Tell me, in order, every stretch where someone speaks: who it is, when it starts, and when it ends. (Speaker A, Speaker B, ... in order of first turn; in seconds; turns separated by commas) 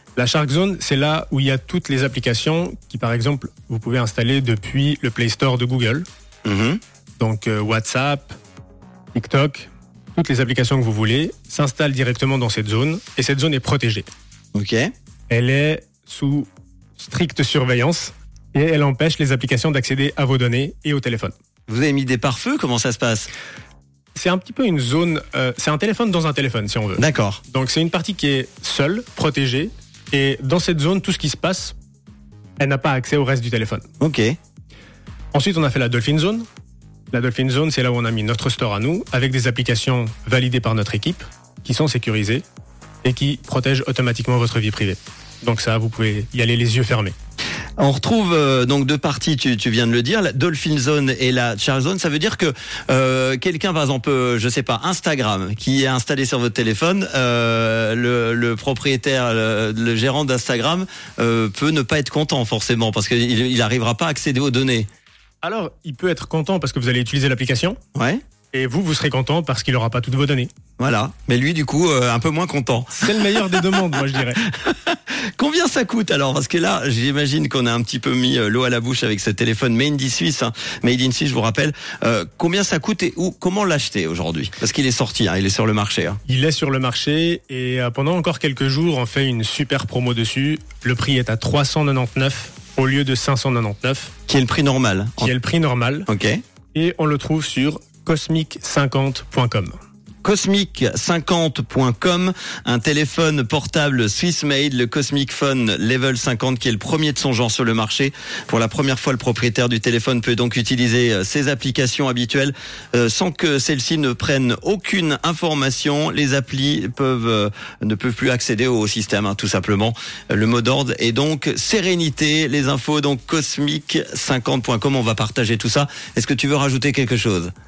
Speaker A: 0.1-6.0, Speaker B: 6.4-6.8, Speaker A: 7.2-8.3, Speaker A: 9.1-14.1, Speaker B: 14.5-14.9, Speaker A: 15.3-16.5, Speaker A: 17.0-21.3, Speaker B: 21.7-23.3, Speaker A: 24.1-31.7, Speaker B: 27.0-27.4, Speaker A: 32.6-33.8, Speaker B: 34.0-34.3, Speaker A: 35.3-36.4, Speaker A: 37.1-42.4, Speaker A: 43.0-47.1, Speaker B: 47.8-64.9, Speaker A: 65.4-67.8, Speaker B: 67.9-68.2, Speaker A: 68.5-70.5, Speaker B: 70.8-73.3, Speaker A: 73.0-74.4, Speaker B: 74.6-86.2, Speaker A: 86.3-94.1, Speaker B: 94.3-95.3, Speaker A: 95.2-96.1, Speaker B: 96.1-96.4, Speaker A: 96.7-99.7, Speaker B: 100.2-127.5